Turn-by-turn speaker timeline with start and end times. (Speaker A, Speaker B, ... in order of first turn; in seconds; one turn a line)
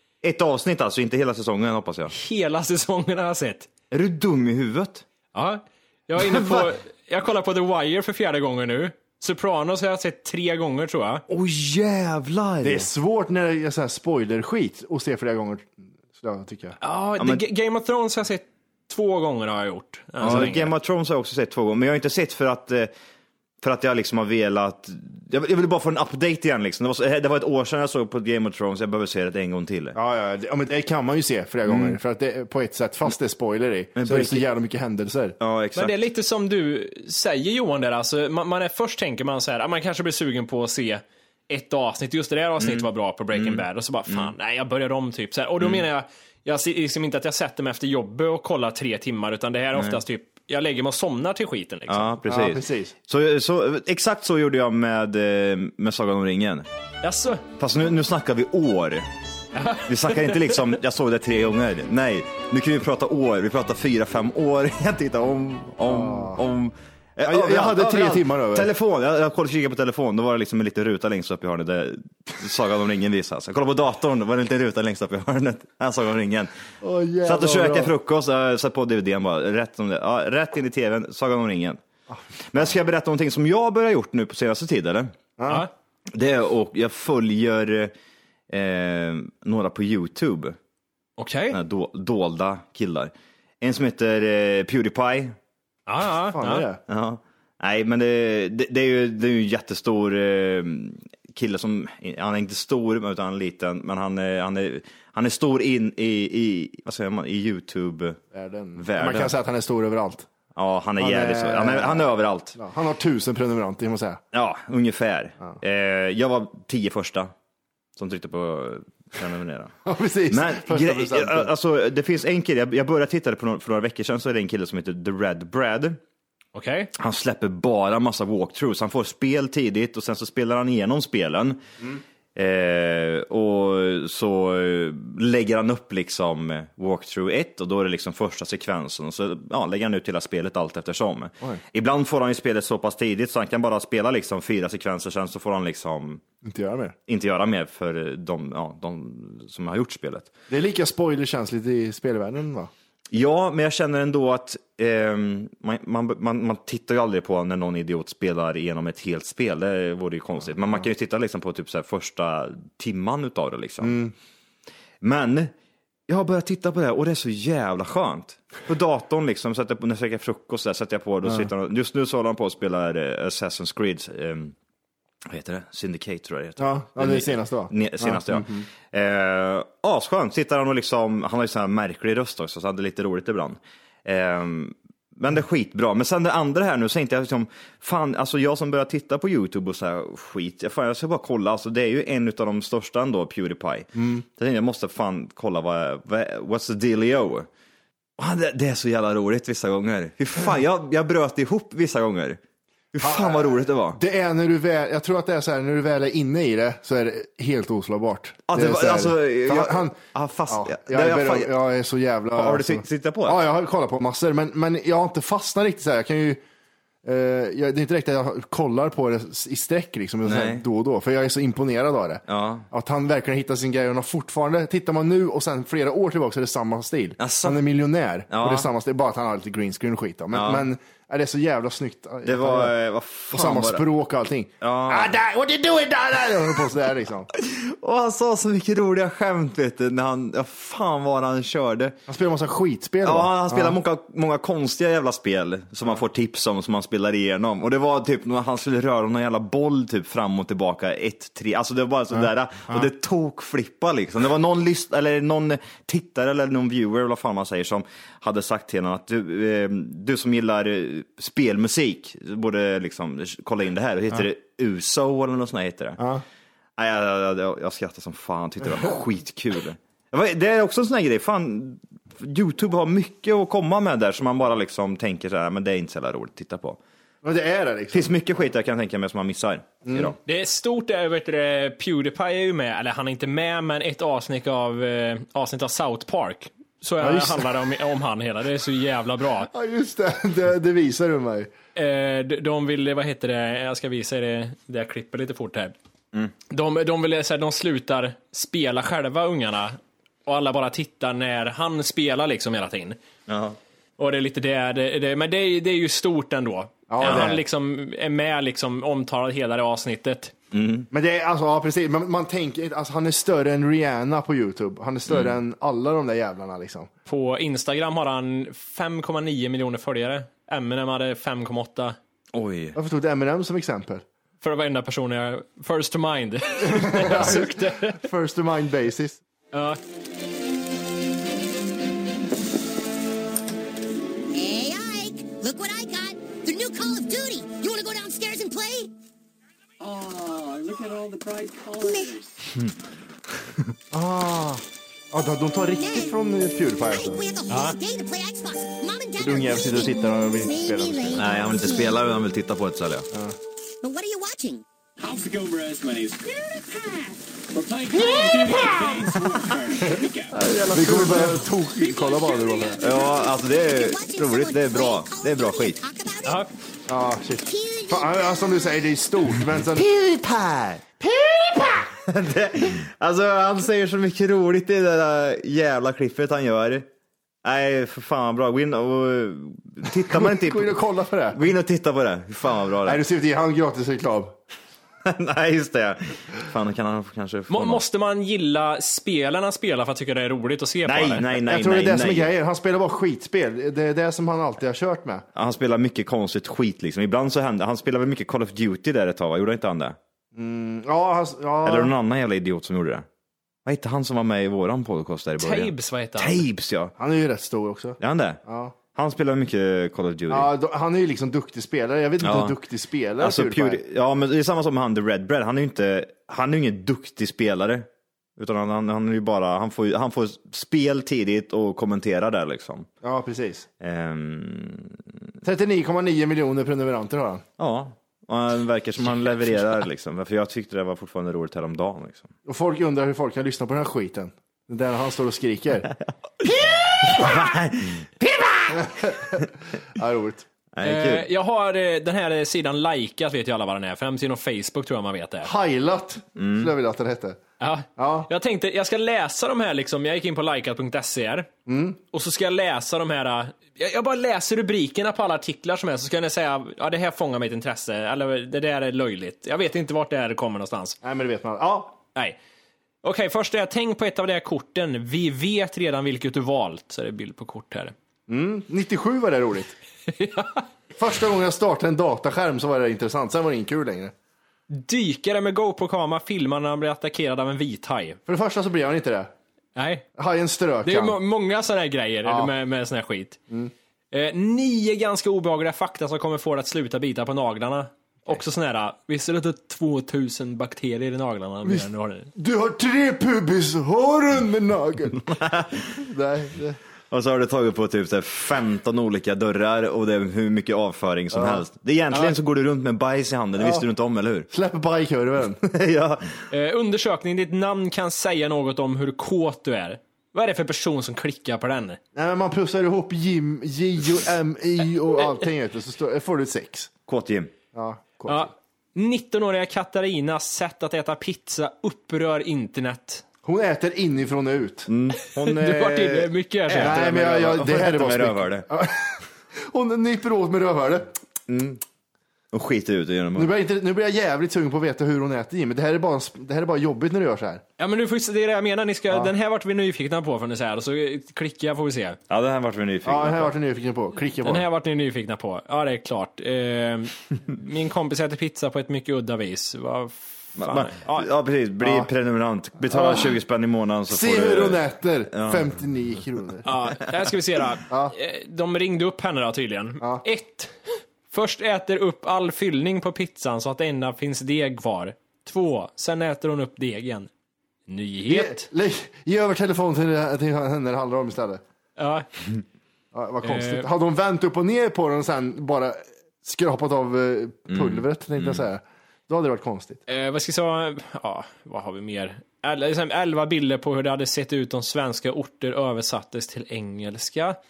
Speaker A: 0.2-2.1
Speaker B: 2.1-3.7
Speaker A: 3.9-5.0
Speaker B: 5.3-11.2
Speaker A: 6.2-6.7
Speaker A: 11.3-12.9
Speaker C: 12.6-16.8
Speaker B: 16.8-20.7
Speaker A: 17.2-17.4
Speaker A: 20.2-22.9
Speaker A: 23.6-29.9
Speaker C: 29.9-35.4
Speaker A: 31.6-32.0
Speaker A: 34.0-34.5
Speaker A: 35.4-36.1
Speaker B: 35.7-52.1
Speaker A: 42.6-44.3
Speaker A: 45.6-45.8
Speaker A: 49.7-50.0
Speaker A: 51.9-56.7
Speaker C: 52.3-52.9
Speaker B: 57.0-57.4
Speaker A: 57.6-59.1
Speaker B: 59.5-60.8
Speaker A: 59.9-76.5
Speaker C: 65.9-66.4
Speaker C: 67.2-68.7
Speaker C: 76.8-77.9
Speaker A: 77.2-81.8
Speaker C: 82.1-82.7
Speaker A: 82.5-85.1
Speaker C: 85.4-85.7
Speaker A: 86.1-87.9
Speaker A: 88.5-90.6
Speaker B: 91.2-91.6
Speaker A: 91.5-95.4
Speaker B: 95.9-96.7
Speaker C: 96.3-96.8
Speaker A: 96.9-108.2
Speaker C: 108.3-110.3
Speaker A: 108.7-109.3
Speaker A: 110.5-112.6
Speaker C: 111.0-114.2
Speaker A: 114.3-117.3
Speaker A: 118.0-119.7
Speaker C: 119.8-121.5
Speaker A: 120.3-126.0
Speaker B: 126.5-126.9
Speaker A: 126.9-131.6
Speaker A: 132.3-146.2
Speaker C: 146.4-146.9
Speaker A: 147.1-150.3
Speaker C: 150.5-152.7
Speaker A: 153.1-164.0
Speaker C: 163.8-164.1
Speaker A: 165.0-165.5
Speaker A: 166.1-174.5
Speaker A: 175.2-197.5
Speaker C: 176.6-178.7
Speaker C: 193.9-194.2
Speaker A: 198.2-202.4
Speaker A: 202.9-204.0
Speaker C: 203.0-216.4
Speaker A: 208.5-211.5
Speaker A: 212.3-213.5
Speaker C: 217.0-232.7
Speaker A: 220.2-220.6
Speaker A: 222.3-222.7
Speaker A: 227.2-227.6
Speaker A: 228.3-228.7
Speaker A: 230.3-230.7
Speaker A: 232.2-233.9
Speaker C: 233.3-237.3
Speaker A: 234.6-235.2
Speaker A: 237.3-241.9
Speaker C: 242.1-243.8
Speaker A: 243.0-266.0
Speaker C: 252.1-252.9
Speaker C: 266.0-266.2
Speaker A: 266.8-276.8
Speaker C: 277.2-278.1
Speaker A: 277.9-280.2
Speaker C: 279.8-280.1
Speaker B: 280.2-289.5
Speaker C: 287.0-287.5
Speaker C: 289.5-291.5
Speaker B: 291.7-295.7
Speaker B: 296.5-303.0
Speaker A: 303.3-303.6
Speaker B: 304.0-310.3
Speaker C: 306.9-307.4
Speaker A: 307.0-307.3
Speaker A: 310.5-310.9
Speaker C: 310.9-316.9
Speaker A: 315.1-315.4
Speaker B: 317.1-321.9
Speaker A: 322.3-322.8
Speaker C: 322.7-324.0
Speaker B: 324.4-328.0
Speaker C: 326.6-329.2
Speaker B: 329.5-329.8
Speaker D: 334.3-338.9
Speaker E: 339.8-342.3
Speaker D: 341.8-342.1
Speaker A: 343.4-343.7
Speaker C: 343.9-347.2
Speaker D: 345.8-346.2
Speaker D: 346.8-352.0
Speaker B: 347.5-347.8
Speaker C: 349.2-351.3
Speaker A: 351.1-353.1
Speaker D: 353.8-354.6
Speaker E: 355.0-360.4
Speaker D: 357.9-359.0
Speaker A: 360.3-361.5
Speaker C: 360.7-362.8
Speaker D: 361.8-366.4
Speaker A: 362.8-365.8
Speaker B: 366.2-366.5
Speaker C: 366.9-369.9
Speaker D: 367.4-368.9
Speaker A: 369.7-376.9
Speaker C: 371.2-371.7
Speaker A: 377.4-383.0
Speaker C: 380.1-381.4
Speaker C: 382.8-384.4
Speaker A: 385.0-387.8
Speaker B: 387.5-391.3
Speaker A: 390.8-392.3
Speaker C: 391.4-395.2
Speaker A: 395.3-400.0
Speaker C: 400.3-401.9
Speaker A: 401.6-403.1
Speaker A: 403.6-406.9
Speaker B: 405.4-406.4
Speaker C: 407.0-408.8
Speaker A: 408.0-408.4
Speaker A: 408.9-410.5
Speaker C: 410.3-413.8
Speaker A: 412.2-412.6
Speaker A: 413.2-422.9
Speaker C: 423.0-423.7
Speaker A: 423.8-425.0
Speaker C: 425.4-427.4
Speaker A: 427.6-432.3
Speaker C: 432.4-435.9
Speaker A: 436.4-439.4
Speaker C: 438.7-440.4
Speaker A: 440.7-441.3
Speaker B: 440.8-445.5
Speaker C: 445.4-447.4
Speaker A: 446.4-446.7
Speaker B: 447.6-451.5
Speaker C: 448.0-448.3
Speaker C: 451.7-452.0
Speaker B: 452.1-461.0
Speaker C: 461.0-461.9
Speaker B: 463.0-467.9
Speaker C: 468.3-469.7
Speaker B: 470.1-470.6
Speaker C: 471.0-474.1
Speaker B: 474.7-478.2
Speaker C: 478.3-479.3
Speaker B: 479.8-480.1
Speaker C: 480.2-481.2
Speaker B: 480.8-483.4
Speaker C: 482.2-482.5
Speaker B: 484.1-492.3
Speaker C: 491.6-495.3
Speaker A: 495.1-495.9
Speaker C: 495.9-496.8
Speaker A: 497.1-504.5
Speaker C: 501.3-501.6
Speaker B: 502.1-502.4
Speaker C: 503.6-503.8
Speaker C: 504.5-505.6
Speaker A: 505.6-506.3
Speaker B: 506.5-512.0
Speaker C: 512.1-516.9
Speaker A: 517.1-517.5
Speaker C: 517.7-518.5
Speaker B: 518.3-523.2
Speaker C: 523.4-524.9
Speaker A: 524.9-528.7
Speaker B: 525.4-527.0
Speaker C: 526.7-531.1
Speaker A: 531.5-531.8
Speaker A: 532.5-533.6
Speaker C: 533.3-537.6
Speaker B: 537.8-542.2
Speaker A: 542.3-543.5
Speaker C: 543.0-544.6
Speaker B: 544.4-551.3
Speaker A: 550.6-555.7
Speaker C: 551.8-552.1
Speaker C: 552.9-553.3
Speaker C: 554.1-556.7
Speaker B: 556.6-560.8
Speaker C: 557.9-558.1
Speaker B: 561.3-567.3
Speaker B: 567.9-568.7
Speaker C: 568.3-571.6
Speaker B: 572.0-572.3
Speaker C: 573.1-580.0
Speaker B: 573.4-573.9
Speaker A: 577.7-578.6
Speaker B: 580.1-587.6